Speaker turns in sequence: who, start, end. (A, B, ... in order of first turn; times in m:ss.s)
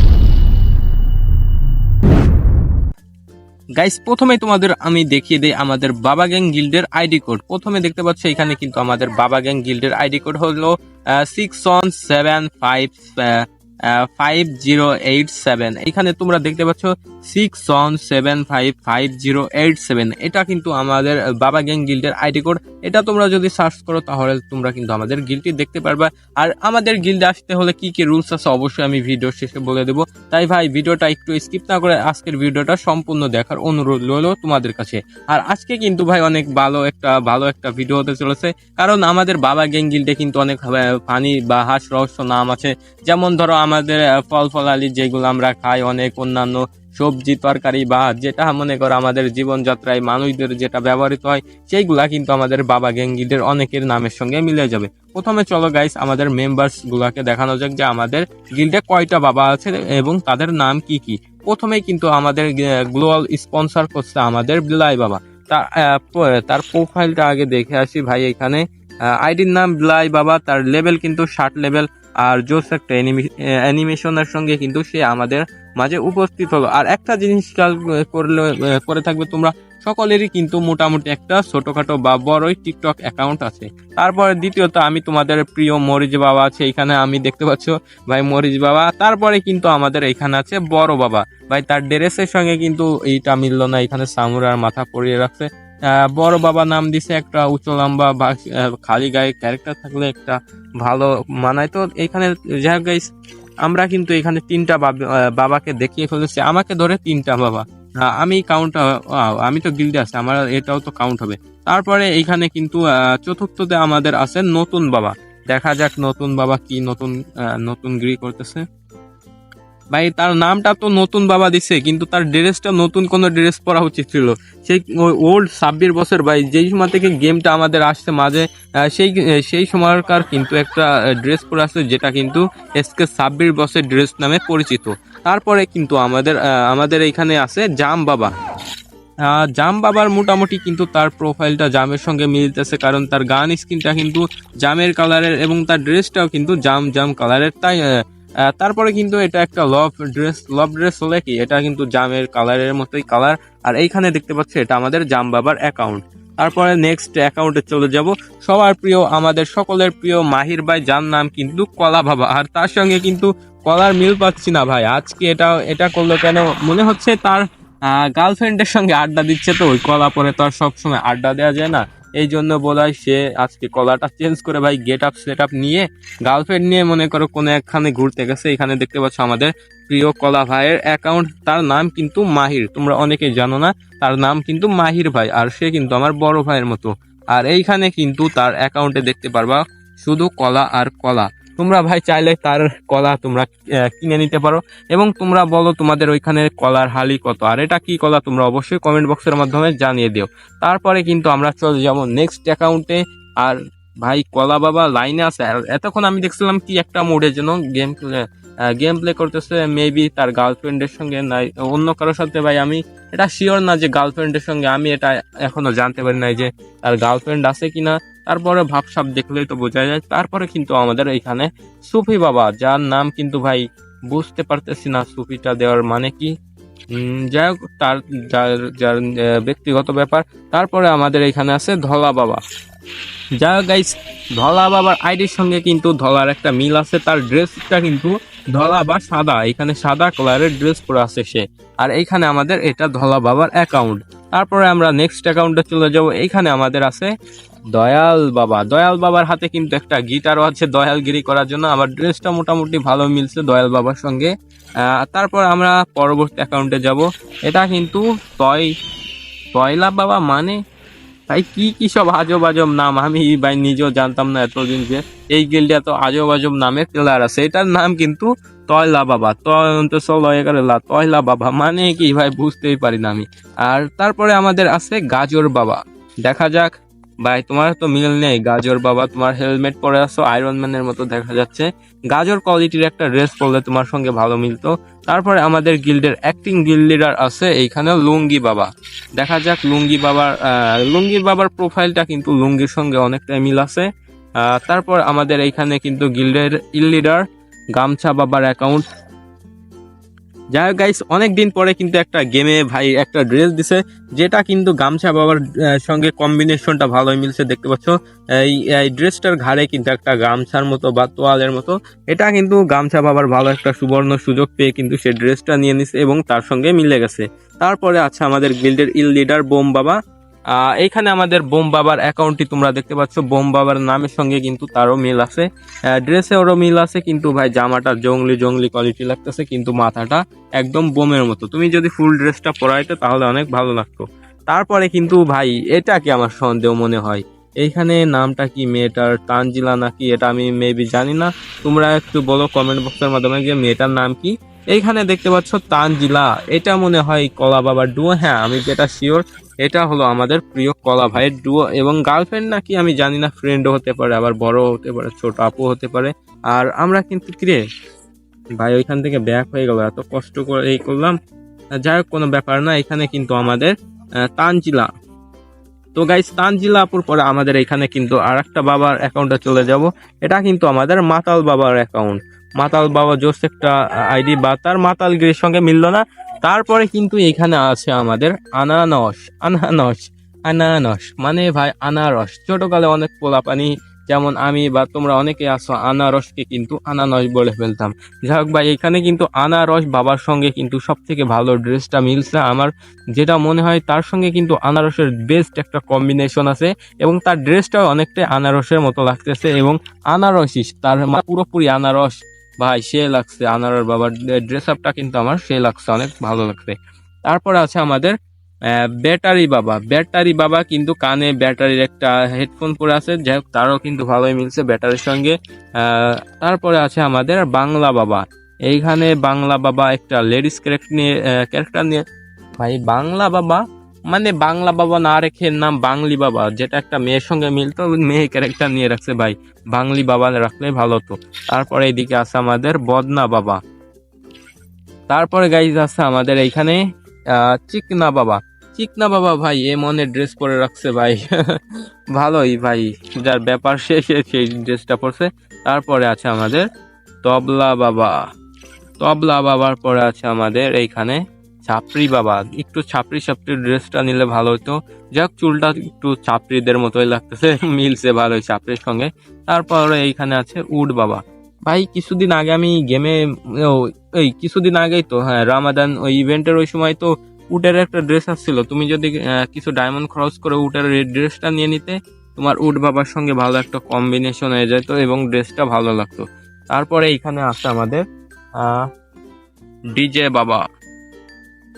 0:03.8-1:08.6 A
1:09.2-1:35.5 A
1:36.2-1:43.1 A
1:43.6-1:58.6 A
1:59.9-2:18.3 A
2:19.3-2:27.8 A
2:28.5-3:46.3 A
3:46.9-3:52.4 A
3:53.4-4:07.1 A
4:07.7-4:14.3 A
4:15.0-4:18.7 A
4:19.6-4:20.6 A
4:21.3-4:36.7 A
4:37.2-4:53.9 A
4:54.4-4:57.2 A
4:57.8-4:58.8 A
5:00.6-5:20.0 A
5:20.6-5:25.5 A
5:26.0-5:57.6 A
5:58.6-6:01.2 A
6:01.8-6:03.7 A
6:04.4-6:04.9 A
6:06.0-6:46.8 A
6:47.3-6:48.1 A
6:48.7-7:02.0 A
7:02.6-7:13.6 A
7:15.1-7:21.6 A
7:22.2-7:26.6 A
7:27.2-7:28.2 A
7:29.0-7:58.0 A
7:58.6-7:58.9 A
7:59.9-8:00.6 A